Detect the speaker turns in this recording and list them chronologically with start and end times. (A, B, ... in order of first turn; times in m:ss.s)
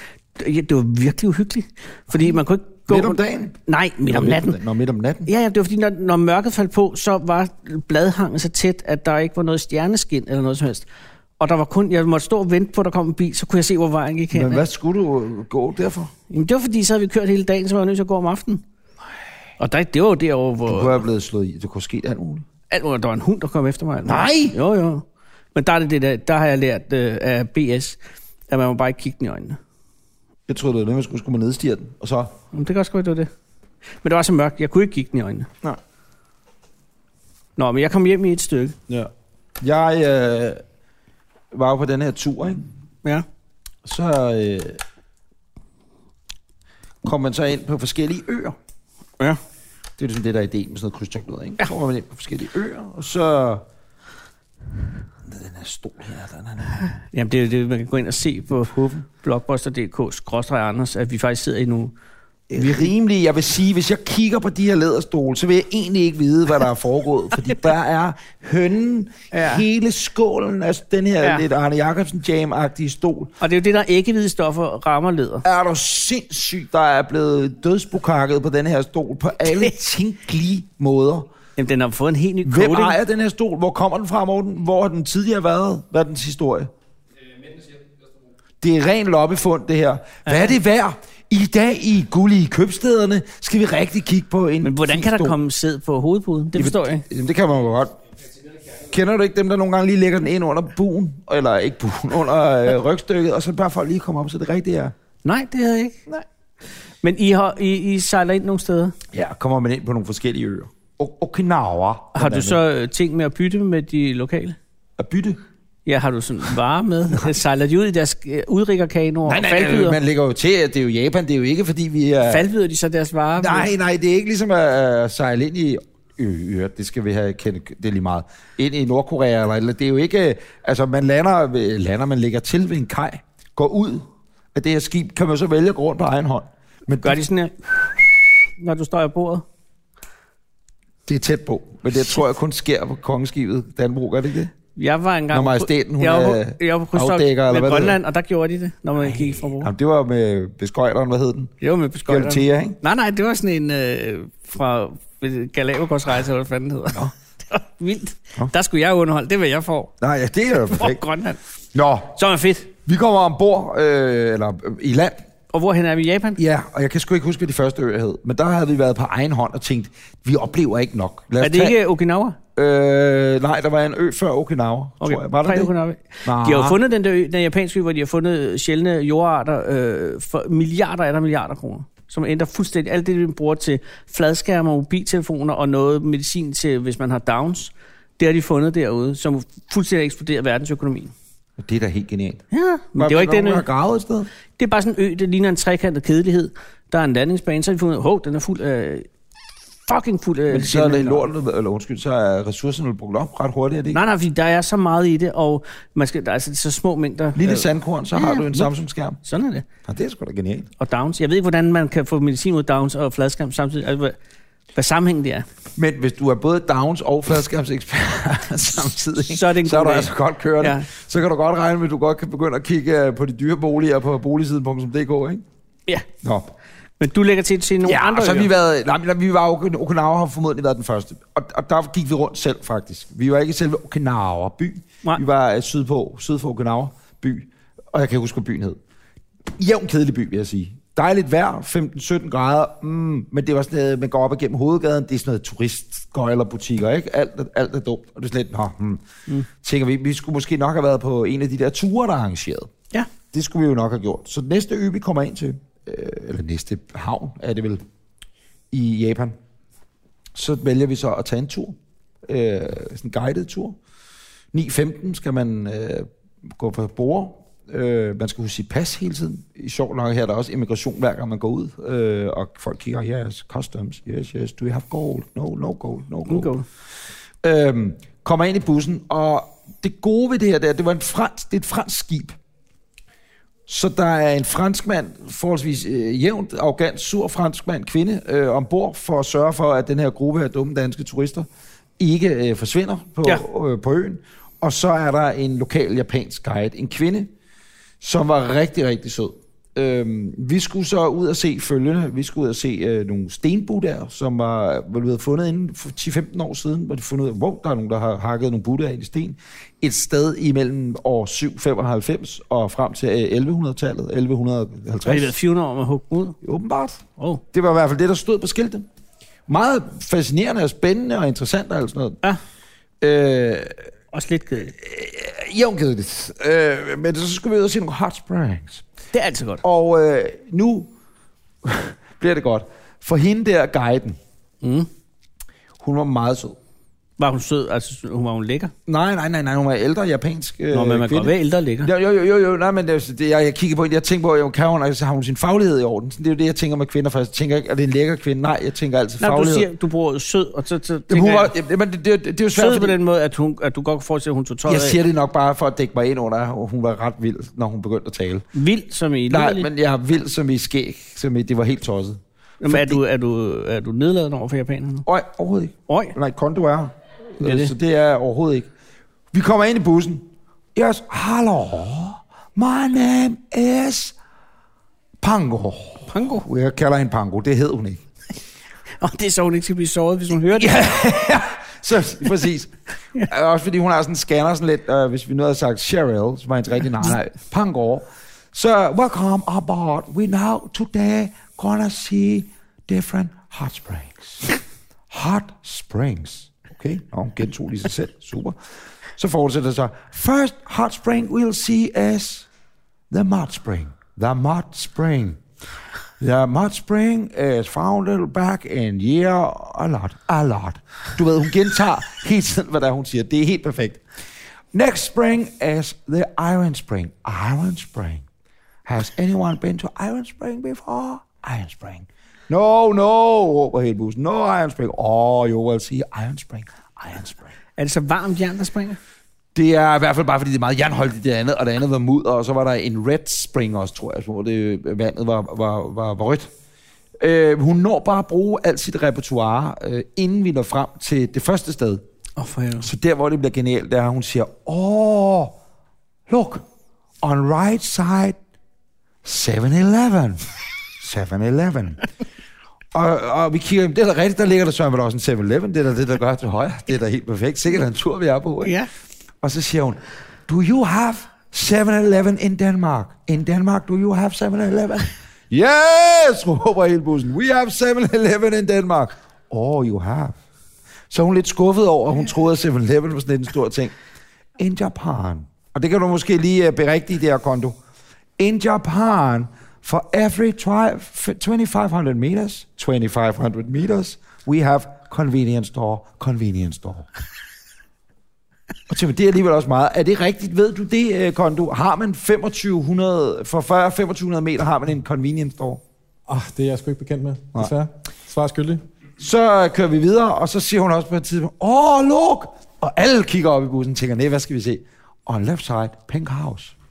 0:00.4-0:04.6 A
0:02.9-0:05.3 B
0:05.2-0:10.8 A
0:11.4-0:14.6 A
0:14.3-0:16.1 B
0:16.3-0:18.6 A
0:19.6-0:21.0 A
0:20.7-0:22.4 B
0:22.7-0:28.0 A
0:24.0-0:24.5 B
0:28.5-0:29.6 A
0:30.5-0:32.3 B
0:32.5-0:33.3 A
0:34.0-0:35.5 A
0:37.6-0:38.8 A
0:38.9-0:40.6 B
0:41.5-0:42.7 B
0:43.8-0:44.8 B
0:47.0-0:48.6 B
0:50.0-0:53.6 B
0:55.2-0:56.8 B
0:56.9-1:01.9 A
0:58.7-0:59.0 B
1:02.5-1:13.3 B
1:02.5-1:02.9 A
1:09.3-1:09.6 A
1:13.4-1:15.4 A
1:15.4-1:21.3 B
1:21.6-1:23.0 A
1:22.4-1:26.7 B
1:28.6-1:35.4 B
1:30.2-1:30.5 A
1:34.6-1:37.0 A
1:36.5-1:37.9 B
1:38.6-1:44.9 B
1:45.2-1:46.1 A
1:47.0-1:48.9 A
1:49.1-1:52.6 B
1:52.1-1:54.6 A
1:55.0-1:55.4 B
1:55.8-2:00.0 A
1:59.3-2:02.5 B
2:02.3-2:03.7 A
2:03.4-2:17.2 B
2:16.9-2:17.6 A
2:18.6-2:19.4 A
2:21.1-2:24.5 B
2:24.7-2:29.7 A
2:25.3-2:28.0 B
2:29.1-2:31.5 B
2:31.6-2:39.9 A
2:32.1-2:32.8 B
2:40.0-2:41.0 B
2:40.6-2:41.4 A
2:41.7-2:42.2 B
2:42.1-2:42.7 A
2:42.8-2:45.2 B
2:45.5-2:46.4 A
2:46.4-2:51.8 B
2:51.4-2:52.4 A
2:52.6-2:55.7 B
2:55.0-3:11.1 A
2:56.2-2:56.8 B
3:11.6-3:12.4 B
3:12.5-3:13.6 A
3:13.0-3:14.3 B
3:14.6-3:19.1 A
3:19.8-3:21.3 A
3:20.5-3:24.0 B
3:23.9-3:28.7 A
3:27.4-3:29.2 B
3:29.2-3:29.7 A
3:29.8-3:30.7 B
3:30.8-3:34.2 A
3:34.7-3:35.4 A
3:35.8-3:45.4 B
3:39.2-3:40.9 A
3:46.2-3:46.5 B
3:47.0-3:48.5 A
3:47.8-3:58.8 B
3:59.6-4:12.7 B
4:13.3-4:17.8 B
4:18.7-4:19.4 B
4:20.3-4:23.8 B
4:24.5-4:36.5 B
4:36.3-4:36.6 A
4:37.4-4:42.4 B
4:43.7-4:51.5 B
4:52.0-4:57.3 B
4:58.0-5:15.3 B
5:15.0-5:16.4 A
5:16.4-5:17.0 B
5:17.2-5:17.4 A
5:17.5-5:18.8 B
5:19.5-5:22.2 B
5:23.0-5:23.9 B
5:24.1-5:24.7 A
5:24.7-5:28.8 B
5:29.1-5:29.6 A
5:29.6-5:30.9 B
5:31.6-5:34.2 B
5:34.6-5:34.9 A
5:35.8-5:36.6 B
5:37.2-5:38.7 A
5:38.9-5:49.7 B
5:40.7-5:41.9 A
5:49.2-5:51.5 A
5:51.1-5:53.0 B
5:52.5-5:55.0 A
5:54.6-5:58.4 B
5:58.5-5:59.7 A
5:59.3-6:03.0 B
6:02.6-6:05.0 A
6:05.0-6:08.7 B
6:05.9-6:06.1 A
6:07.4-6:07.7 A
6:09.3-6:14.1 B
6:15.2-6:18.0 B
6:16.1-6:16.4 A
6:19.0-6:21.1 A
6:20.5-6:34.6 B
6:35.1-6:38.6 B
6:39.2-6:42.5 B
6:43.1-6:45.4 B
6:46.2-6:54.0 B
6:54.7-6:58.2 B
6:58.8-7:07.5 B
7:07.8-7:09.0 A
7:09.5-7:16.5 B
7:17.2-7:22.0 B
7:22.4-7:22.9 A
7:22.8-7:25.6 B
7:26.3-7:26.6 B
7:27.2-7:28.4 B
7:29.2-7:30.5 B
7:31.0-7:32.0 B
7:32.9-7:38.7 B
7:38.6-7:38.9 A
7:39.4-7:50.4 B
7:51.1-7:53.9 B
7:54.6-7:57.8 B
7:58.4-8:07.1 B
8:08.9-8:15.8 B
8:16.3-8:18.8 C
8:19.2-8:26.7 B